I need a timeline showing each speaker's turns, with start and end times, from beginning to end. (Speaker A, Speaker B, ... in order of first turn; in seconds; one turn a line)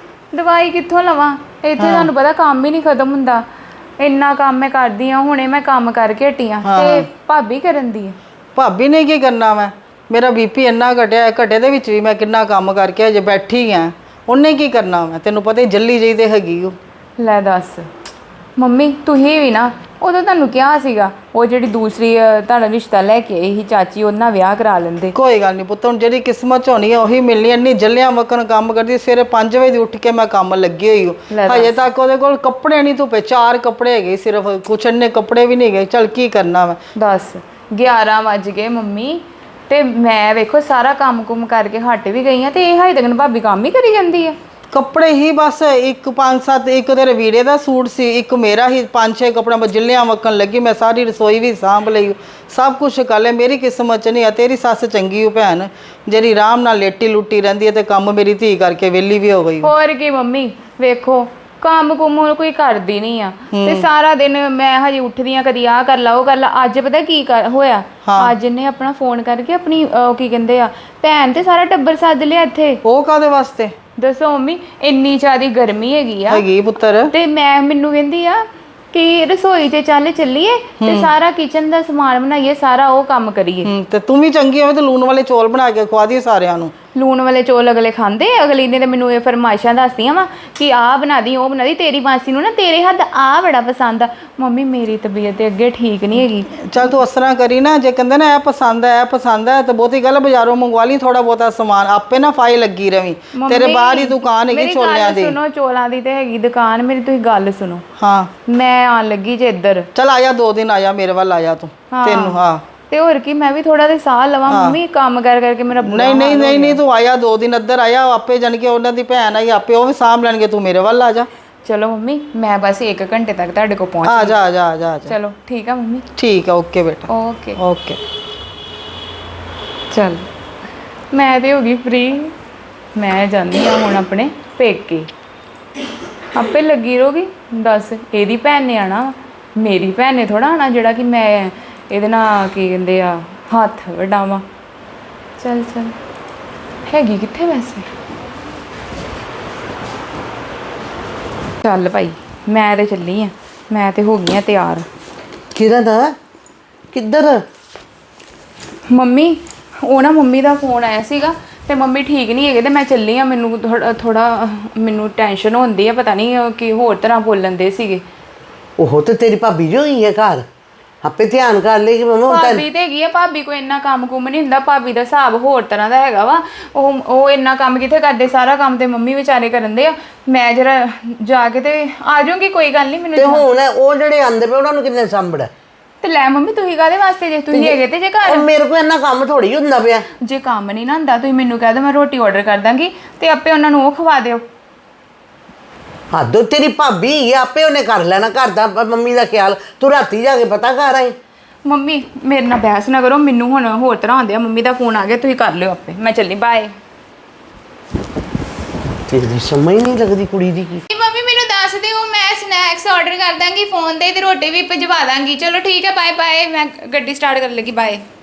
Speaker A: 0.3-3.4
Speaker B: 1.8-2.1
Speaker A: 4.0-8.2
Speaker B: 6.6-7.1
Speaker B: 8.6-16.8
Speaker A: 17.2-17.9
Speaker A: 18.6-25.2
Speaker B: 25.1-36.8
Speaker A: 31.3-31.8
Speaker A: 37.0-44.4
Speaker B: 44.7-59.7
Speaker A: 59.6-72.8
Speaker B: 63.5-63.9
Speaker B: 68.1-68.3
Speaker B: 72.8-73.7
Speaker A: 74.0-76.4
Speaker B: 76.3-77.1
Speaker A: 77.1-83.7
Speaker B: 80.8-81.1
Speaker B: 83.7-86.7
Speaker A: 87.0-97.0
Speaker B: 96.7-105.3
Speaker A: 103.3-107.8
Speaker B: 108.0-108.3
Speaker A: 108.5-109.9
Speaker B: 110.0-112.6
Speaker A: 111.9-116.8
Speaker B: 114.5-114.8
Speaker B: 115.9-121.3
Speaker A: 121.7-124.4
Speaker B: 124.1-125.2
Speaker A: 125.1-126.0
Speaker B: 126.2-128.0
Speaker A: 127.1-127.6
Speaker A: 129.9-130.3
Speaker A: 131.1-132.3
Speaker A: 133.0-135.1
Speaker A: 136.3-144.4
Speaker A: 145.4-145.9
Speaker A: 146.9-147.9
Speaker A: 151.6-154.8
Speaker C: 155.6-156.2
Speaker C: 156.9-157.4
Speaker A: 158.9-168.0
Speaker C: 168.8-170.4
Speaker C: 171.0-172.7
Speaker A: 172.3-183.4
Speaker C: 183.2-185.5
Speaker A: 186.0-188.5
Speaker C: 187.5-190.1
Speaker A: 190.2-194.4
Speaker C: 196.1-201.2
Speaker A: 201.7-206.7
Speaker C: 209.1-210.8
Speaker A: 210.9-218.0